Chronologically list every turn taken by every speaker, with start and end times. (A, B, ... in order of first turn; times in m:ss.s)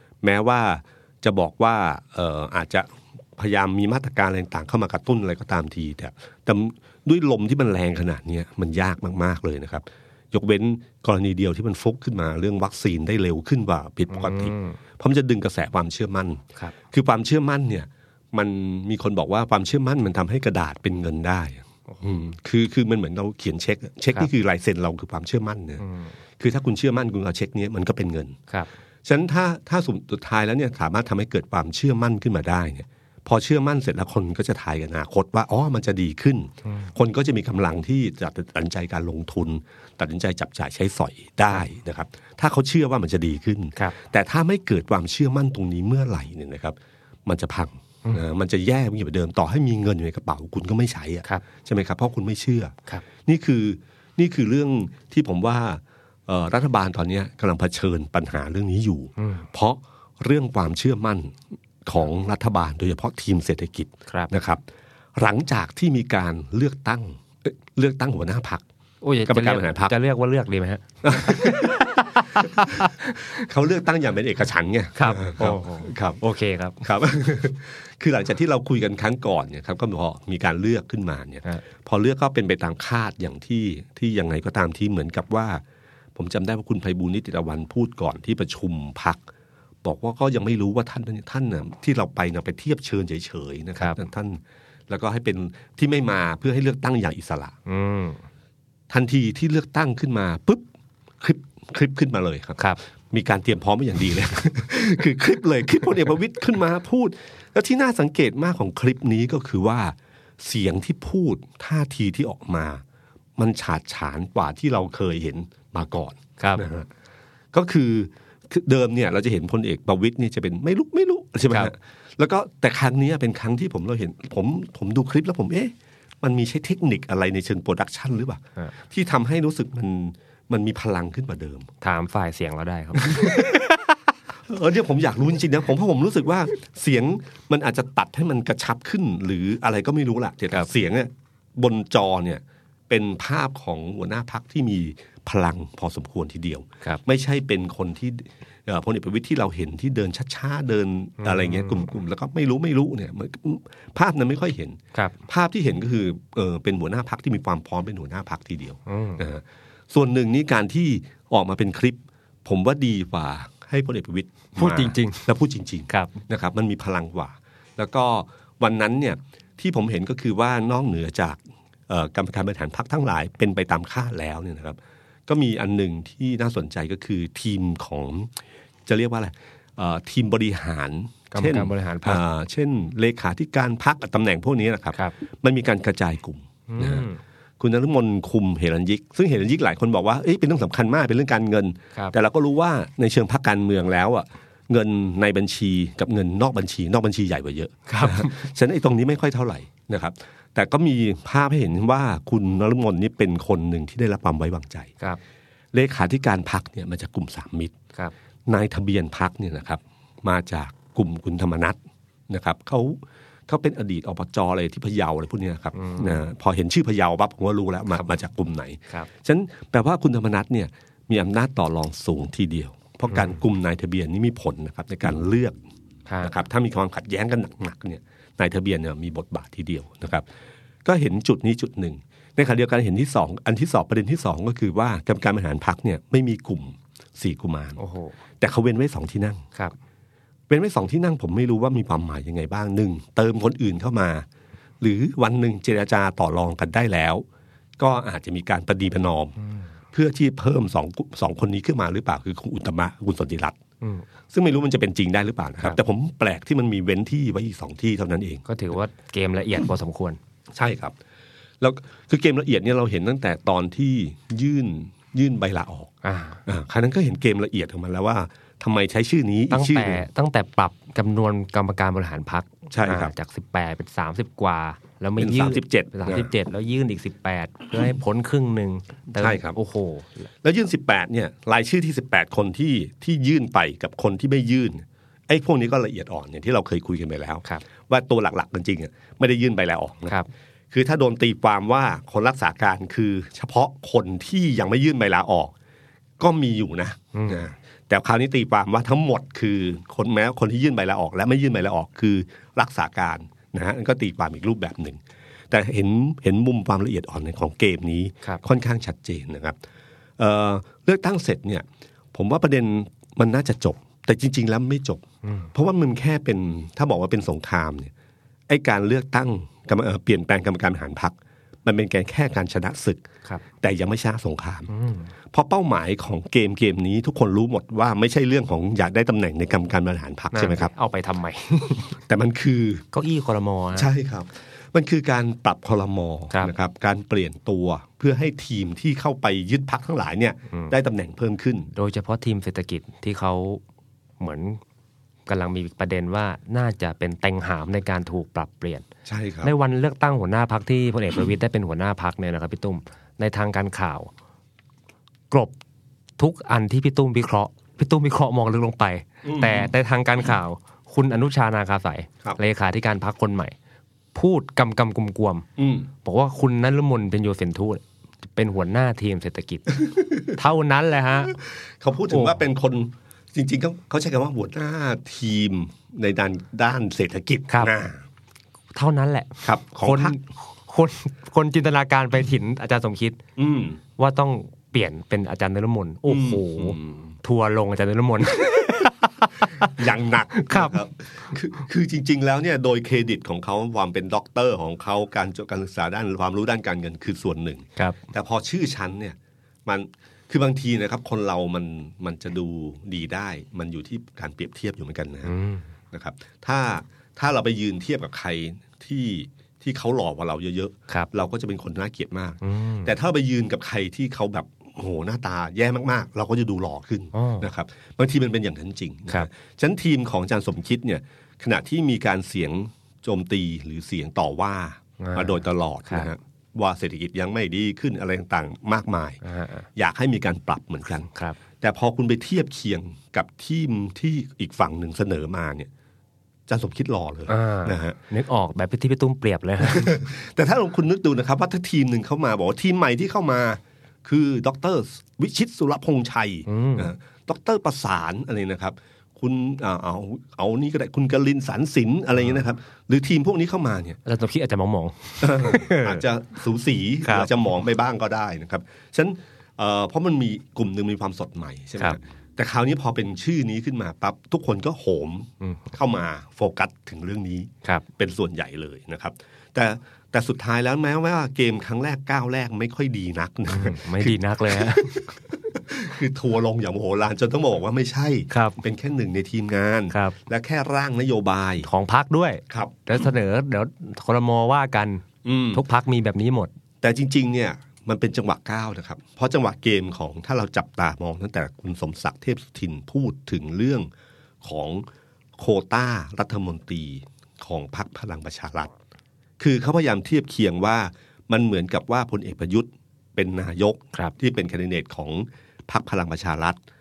0:00.2-0:25.8 A
0:14.1-0:14.8 B
0:25.8-0:26.1 B
0:26.4-0:28.4 A
0:29.0-1:04.6 A
0:36.7-0:36.9 B
0:59.2-0:59.5 B
1:05.2-1:08.6 A
1:09.0-1:13.4 B
1:09.3-1:09.9 A
1:11.0-1:16.2 A
1:15.0-1:16.8 B
1:16.8-1:25.6 A
1:26.2-1:29.2 A
1:29.8-1:37.6 A
1:37.7-1:38.2 B
1:38.9-1:40.7 A
1:41.2-1:52.8 A
1:53.4-1:56.9 A
1:56.4-1:56.7 B
1:57.5-2:11.7 A
2:11.8-2:13.9 B
2:13.0-2:13.6 A
2:14.5-2:58.3 A
2:31.2-2:31.9 B
2:38.9-2:39.2 B
2:44.6-2:45.3 B
2:45.9-2:46.2 B
2:58.9-3:07.1 A
3:01.3-3:02.2 B
3:06.7-3:07.2 B
3:07.6-3:24.9 A
3:17.9-3:18.4 B
3:25.7-3:27.8 A
3:28.5-3:45.6 A
3:35.8-3:36.2 B
3:46.2-3:50.3 A
3:50.8-3:57.8 A
3:57.8-3:58.2 B
3:58.4-3:59.4 A
4:00.5-4:04.3 A
4:04.8-4:07.2 A
4:07.8-4:09.4 A
4:09.9-4:13.6 A
4:14.3-4:18.5 A
4:18.5-4:20.2 B
4:20.5-4:21.0 A
4:21.6-4:25.9 A
4:26.0-4:26.4 B
4:26.5-4:30.1 A
4:29.5-4:40.3 B
4:32.7-4:33.1 A
4:35.2-4:36.3 A
4:39.2-4:39.6 A
4:40.4-4:55.5 A
4:56.2-5:09.6 A
4:57.1-4:57.4 B
5:10.2-5:17.9 A
5:18.5-5:23.0 A
5:23.6-5:24.7 A
5:24.7-5:25.1 B
5:25.3-5:30.7 A
5:30.3-5:32.0 B
5:32.0-5:32.8 A
5:32.9-5:33.9 B
5:33.8-5:41.7 A
5:41.8-5:43.6 B
5:44.2-5:44.6 B
5:45.3-5:48.9 B
5:49.1-5:49.5 A
5:49.4-5:54.1 B
5:55.3-5:55.6 B
5:56.2-6:03.6 B
5:59.2-5:59.7 A
6:04.2-6:05.5 B
6:05.6-6:05.9 A
6:06.0-6:07.8 B
6:08.4-6:11.4 B
6:09.9-6:10.2 A
6:11.5-6:18.0 A
6:12.1-6:12.4 B
6:18.8-6:23.2 B
6:19.4-6:20.2 A
6:23.4-6:23.8 A
6:24.0-6:29.8 B
6:26.1-6:27.2 A
6:29.6-6:45.3 A
6:30.4-6:30.8 B
6:45.3-6:45.7 B
6:45.9-7:09.2 A
6:52.4-6:52.9 B
6:57.1-6:57.5 B
7:05.0-7:06.1 B
7:09.2-7:09.7 B
7:09.8-7:11.1 A
7:11.6-7:15.7 A
7:16.5-7:18.0 A
7:17.3-7:20.0 B
7:19.6-7:34.0 A
7:26.5-7:26.9 B
7:34.0-7:36.0 B
7:35.2-8:01.7 A
7:37.0-7:37.3 B
7:53.5-7:55.1 B
7:58.3-7:58.6 B
7:59.9-8:00.2 B
8:01.6-8:06.5 B
8:02.5-8:02.9 A
8:05.2-8:05.6 A
8:06.8-8:13.9 A
8:14.4-8:14.9 A
8:15.4-8:18.7 A
8:19.4-8:26.6 A